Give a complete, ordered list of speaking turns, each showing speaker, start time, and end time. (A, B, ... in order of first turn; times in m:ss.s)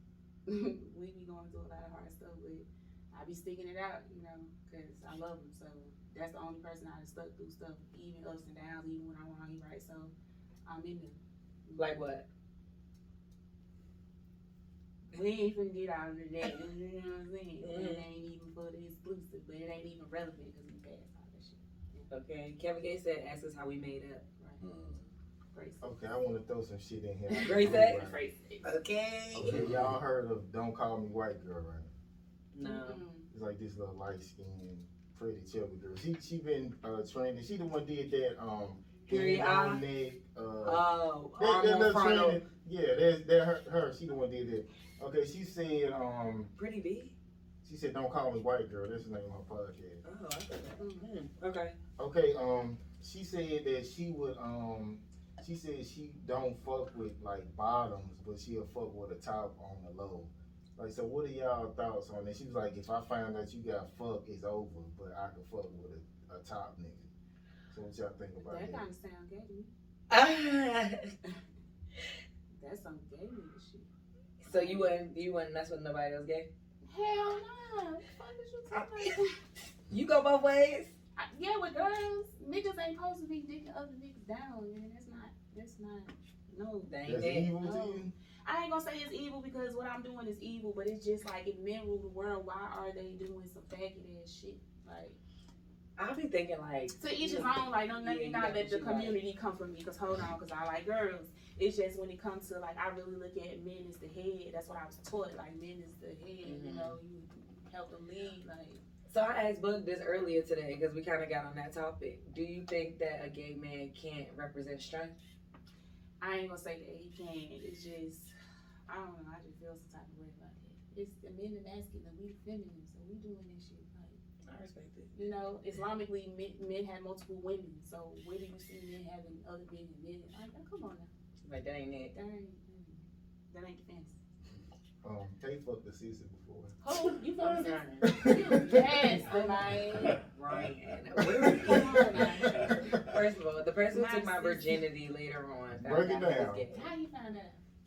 0:00.5-0:10.1 A
0:10.6-0:12.0 A
0:11.8-0:12.2 B
0:15.1-0:22.1 A
0:17.6-0:18.1 B
0:22.1-0:24.2 B
0:24.6-0:25.1 C
0:25.5-0:25.9 A
0:25.8-0:28.2 D
0:27.3-0:28.7 A
0:27.4-0:28.1 B
0:28.6-0:29.7 B
0:29.3-0:30.0 C
0:29.3-0:31.9 D
0:32.5-0:33.0 B
0:32.6-0:33.3 A
0:33.3-0:40.8 D
0:39.1-0:39.8 B
0:40.6-0:42.4 B
0:41.4-0:46.5 D
0:46.6-0:47.1 B
0:47.6-0:50.0 D
0:50.0-0:51.7 B
0:50.8-0:51.1 A
0:52.0-1:07.1 D
1:07.7-1:08.8 D
1:08.4-1:09.7 A
1:10.1-1:11.1 B
1:12.5-1:13.9 A
1:14.4-1:16.5 B
1:14.4-1:15.0 A
1:16.8-1:19.4 A
1:18.7-1:19.1 B
1:19.9-1:20.9 B
1:21.2-1:26.9 A
1:26.9-1:27.5 B
1:27.0-1:28.1 D
1:27.6-1:35.2 A
1:36.0-1:39.2 B
1:37.0-1:48.8 A
1:46.4-1:47.0 B
1:49.1-1:55.2 B
1:56.2-1:58.3 A
1:58.9-2:04.2 A
2:04.4-2:05.1 B
2:05.1-2:11.1 A
2:11.4-2:12.1 B
2:12.1-2:14.2 A
2:15.0-2:16.8 D
2:16.8-2:20.2 A
2:17.4-2:18.2 B
2:18.0-2:19.2 D
2:19.1-2:26.9 B
2:20.5-2:20.9 C
2:21.2-2:22.7 D
2:21.6-2:23.2 C
2:21.6-2:23.0 A
2:23.9-2:24.8 A
2:25.8-2:26.7 D
2:26.7-2:27.6 A